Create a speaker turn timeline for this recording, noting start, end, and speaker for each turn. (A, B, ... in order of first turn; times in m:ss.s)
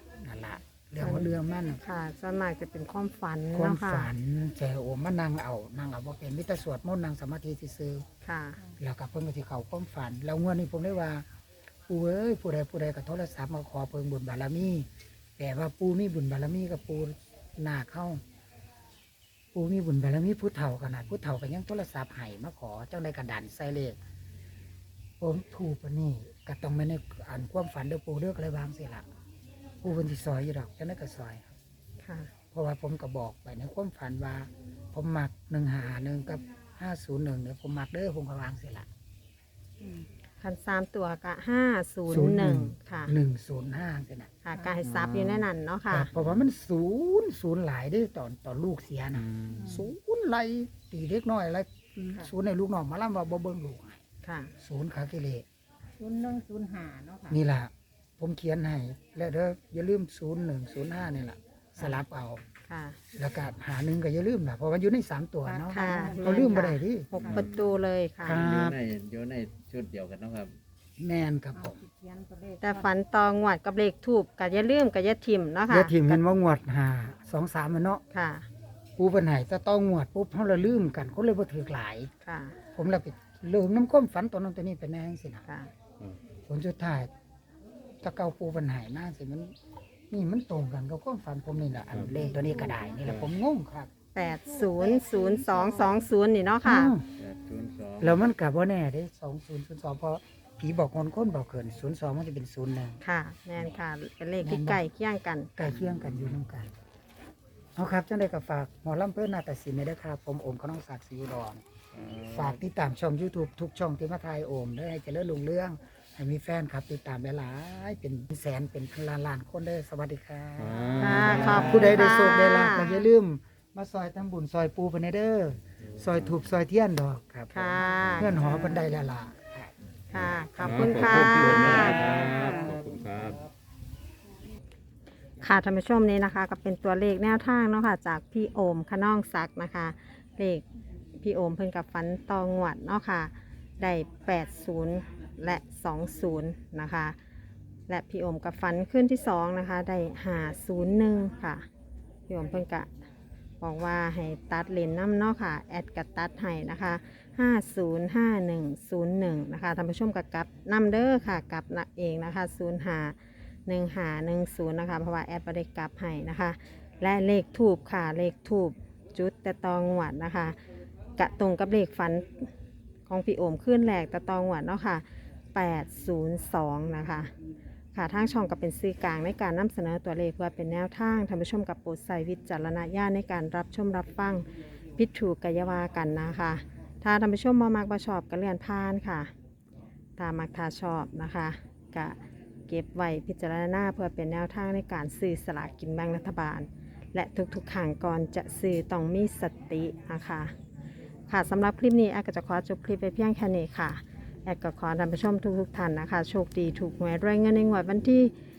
0:00.2-0:01.8 A
0:01.0-0:01.3 B
0:01.8-0:04.1 B
0:03.5-0:08.0 A
0:08.2-0:08.6 B
0:08.8-0:11.2 A
0:11.9-0:14.9 A
0:15.4-0:18.2 A
0:19.5-0:24.0 A
0:25.2-0:29.0 A
0:29.8-0:31.5 A
0:32.0-0:32.3 B
0:32.5-0:38.9 A
0:40.4-0:43.1 B
0:42.1-0:44.3 A
0:44.4-0:46.1 B
0:44.8-0:45.4 C
0:45.9-0:54.0 A
0:49.3-0:49.7 C
0:49.6-0:49.8 D
0:54.2-0:54.5 B
0:54.6-0:55.4 A
0:56.0-0:57.4 D
0:57.3-1:02.4 A
1:02.7-1:03.0 B
1:03.1-1:07.4 A
1:05.4-1:06.5 D
1:05.7-1:08.4 B
1:07.2-1:07.7 C
1:08.2-1:08.8 A
1:08.3-1:10.6 C
1:11.0-1:11.8 A
1:11.5-1:12.8 D
1:12.6-1:16.2 B
1:15.7-1:18.0 A
1:18.1-1:18.5 B
1:19.0-1:22.1 A
1:22.2-1:22.6 B
1:22.7-1:25.4 A
1:26.5-1:27.1 A
1:28.0-1:29.5 A
1:30.1-1:33.9 A
1:34.1-1:36.9 B
1:34.5-1:36.0 D
1:36.6-1:37.0 A
1:37.2-1:38.2 C
1:38.0-1:43.0 A
1:43.0-1:45.5 B
1:44.4-1:44.8 A
1:45.6-1:46.7 A
1:45.9-1:46.4 C
1:47.8-1:51.6 A
1:51.9-1:52.6 C
1:52.3-2:09.7 A
2:00.6-2:01.8 E
2:01.0-2:03.0 B
2:05.9-2:06.3 E
2:07.5-2:08.4 B
2:10.1-2:12.2 B
2:10.6-2:13.4 E
2:12.0-2:12.8 C
2:15.4-2:20.6 B
2:21.2-2:27.2 B
2:27.9-2:31.6 B
2:32.3-2:32.9 B
2:33.6-2:50.6 B
2:51.2-2:52.5 B
2:53.1-2:57.3 B
2:57.9-3:09.3 B
3:10.2-3:12.2 B
3:12.7-3:20.5 B
3:21.3-3:28.3 B